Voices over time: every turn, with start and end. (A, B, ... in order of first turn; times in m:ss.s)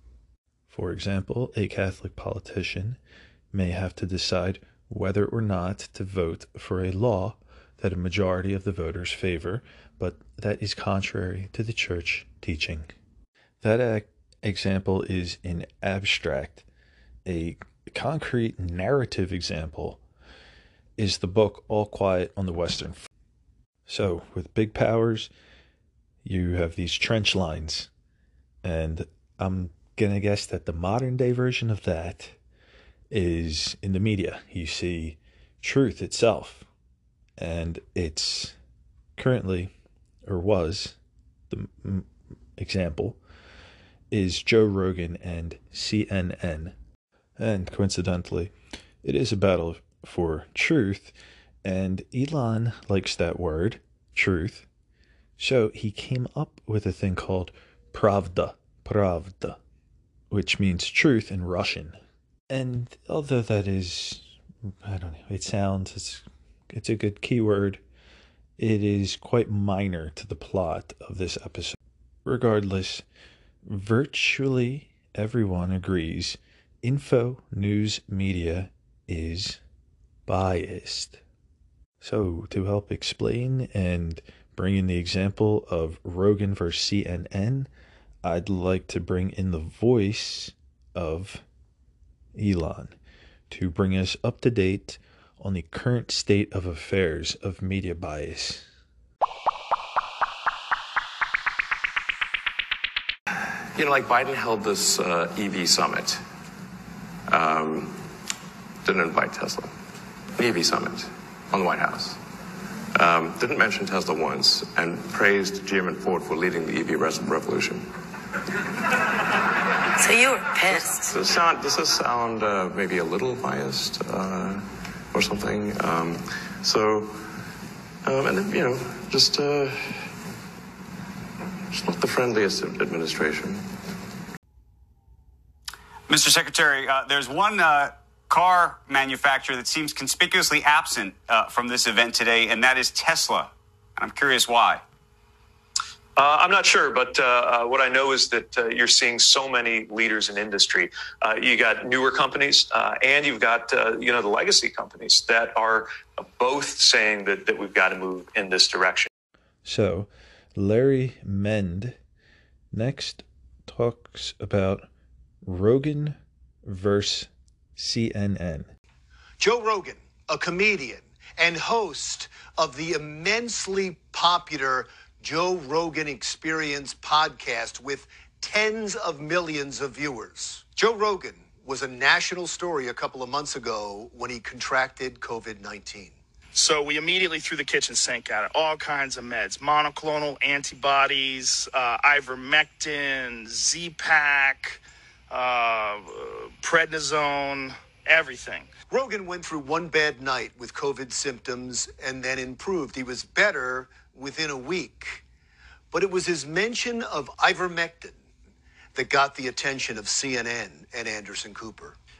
0:00.7-0:03.0 A
0:03.5-0:12.9 A
0:13.6-0:16.6 A
0:17.2-0:20.0 A
0:21.0-0:23.0 A
0:23.9-0:25.3 A
0:26.2-0:27.9 A
0:28.6-0:32.4 A
0:33.1-0:36.7 A
0:37.4-0:38.6 A
0:39.2-0:39.7 A
0:40.3-0:41.0 A
0:41.5-0:43.2 A
0:44.1-0:46.7 A
0:47.4-0:54.7 A
0:55.4-0:59.6 A
1:00.3-1:02.0 A
1:02.5-1:07.8 A
1:08.6-1:13.0 A
1:13.6-1:19.6 A
1:20.3-1:21.2 A
1:22.0-1:27.7 A
1:28.2-1:31.4 A
1:32.3-1:33.0 A
1:33.5-1:38.7 A
1:43.7-1:46.2 B
1:47.3-1:47.9 B
1:48.8-1:49.7 B
1:50.4-1:52.2 B
1:52.9-1:57.8 B
2:00.0-2:01.1 C
2:00.7-2:07.2 B
2:08.0-2:10.1 B
2:11.7-2:13.6 B
2:16.1-2:24.8 C
2:26.2-2:39.1 D
2:39.6-2:42.0 A
2:42.7-2:44.9 A
2:45.4-2:48.7 A
2:49.4-3:06.1 E
3:06.5-3:18.7 F
3:18.9-3:25.2 E
3:25.9-3:28.2 E
3:29.0-3:32.0 E